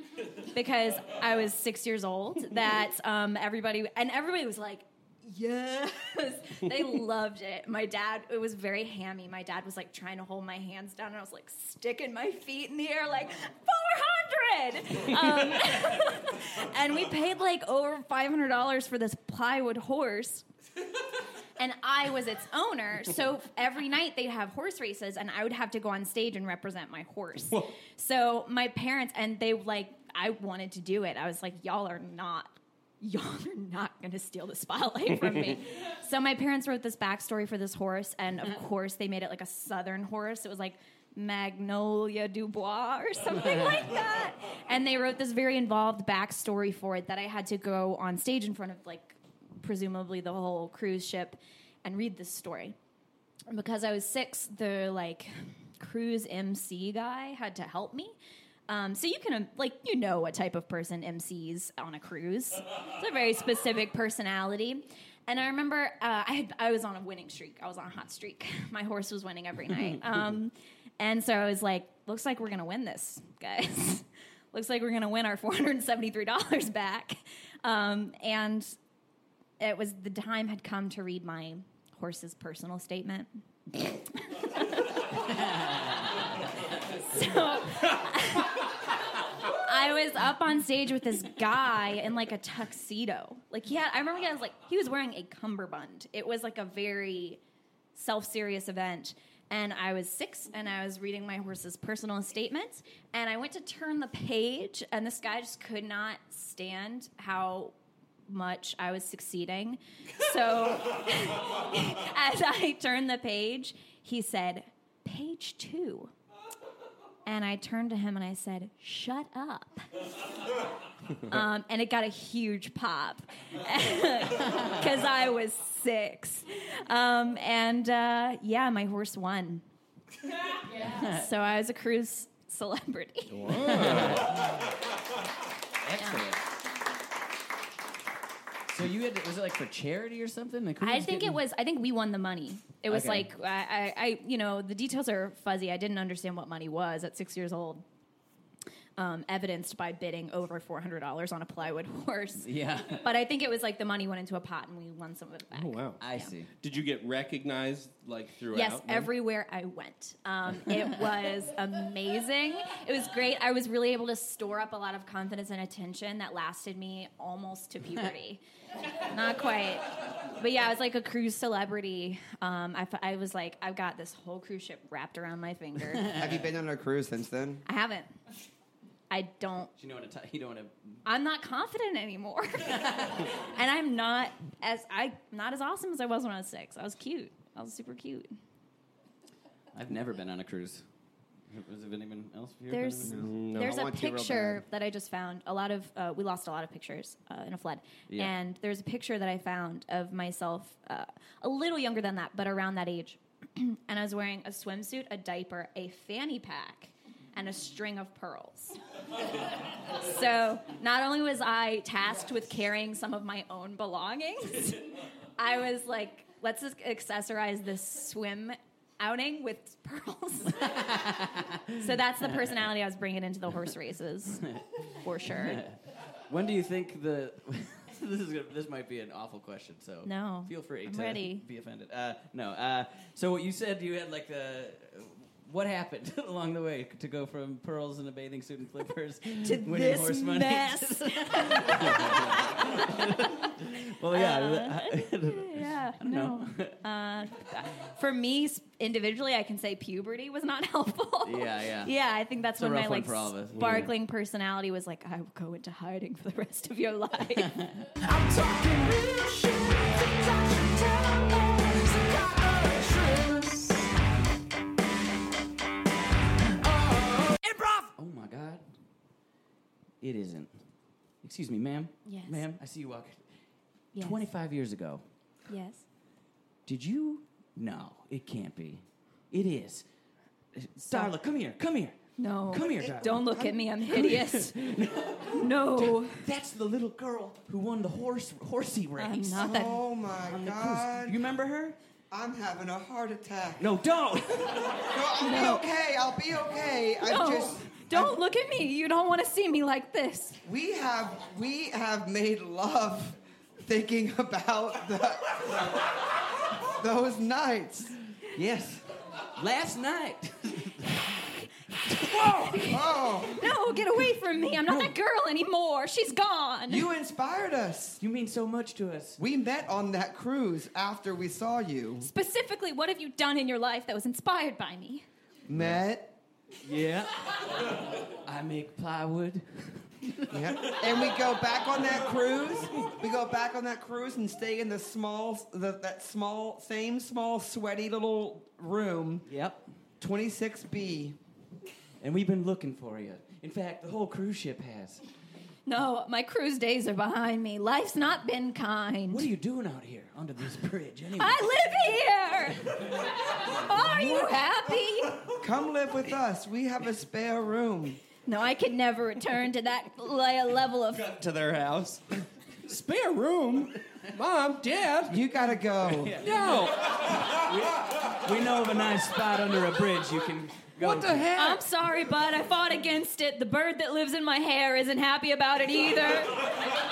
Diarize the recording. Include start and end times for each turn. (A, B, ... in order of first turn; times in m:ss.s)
0:00.5-0:20.4 A
0:21.6-0:52.8 A
0:53.5-0:58.2 A
0:58.7-1:18.8 A
1:19.6-1:25.7 A
1:26.9-1:37.4 A
1:38.0-1:47.8 A
1:48.3-1:56.1 A
1:57.3-1:59.9 A
2:01.2-2:09.6 A
2:10.8-2:14.0 A
2:10.8-2:11.2 B
2:13.3-2:14.4 C
2:13.6-2:14.4 B
2:15.8-2:16.4 B
2:18.7-2:21.4 B
2:20.8-2:27.8 A
2:22.9-2:23.3 B
2:29.0-2:36.3 A
2:32.4-2:33.1 B
2:35.5-2:36.0 C
2:36.0-2:36.5 B
2:36.5-2:39.1 C
2:38.5-2:48.4 A
2:49.1-2:56.2 A
2:56.1-2:57.6 D
2:57.7-2:58.1 A
2:59.1-2:59.7 A
2:59.8-3:01.0 B
3:01.1-3:08.3 A
3:09.7-3:10.8 B
3:11.5-3:13.3 B
3:12.7-3:28.8 A
3:13.0-3:14.6 D
3:13.1-3:13.8 C
3:18.1-3:18.3 B
3:29.9-3:41.0 A
3:40.6-3:41.8 B
3:41.7-3:45.6 A
3:45.3-4:06.8 B
3:50.0-3:51.4 A
3:59.4-4:03.3 A
4:04.1-4:17.5 A
4:11.2-4:11.9 B
4:12.6-4:13.9 B
4:13.6-4:13.9 C
4:17.3-4:17.9 B
4:18.0-4:23.9 E
4:26.6-4:27.8 E
4:27.8-4:28.6 B
4:30.0-4:30.5 B
4:31.2-4:33.2 B
4:32.1-4:32.4 A
4:33.9-4:34.2 A
4:34.0-4:35.0 B
4:35.5-4:35.8 A
4:36.7-4:39.9 B
4:40.6-4:49.6 B
4:40.8-4:41.1 A
4:42.2-4:46.2 A
4:49.0-4:49.8 A
4:49.4-4:51.2 D
4:50.2-4:51.8 B
4:52.1-4:53.7 D
4:53.6-4:54.8 B
4:54.7-4:58.2 D
4:55.2-4:55.6 A
4:57.0-5:00.4 A
5:00.4-5:06.0 D
5:06.6-5:08.0 D
5:08.3-5:11.2 B
5:11.8-5:12.7 B
5:11.9-5:16.9 A
5:12.6-5:13.5 D
5:14.7-5:14.9 B
5:16.7-5:18.0 D
5:18.0-5:19.2 B
5:19.2-5:22.1 D
5:22.0-5:25.1 A
5:25.5-5:26.1 D
5:26.6-5:30.7 B
5:30.3-5:39.3 D
5:39.3-5:39.7 B
5:40.0-5:41.2 D
5:42.0-5:45.0 B
5:45.7-5:49.3 A
5:49.1-5:51.4 B
5:51.2-5:55.3 A
5:53.9-5:54.3 B
5:55.4-5:58.0 D
5:58.2-6:01.1 A
6:00.9-6:05.2 C
6:05.1-6:06.2 D
6:05.8-6:11.3 B
6:06.2-6:07.2 C
6:10.8-6:11.6 C
6:11.3-6:16.5 A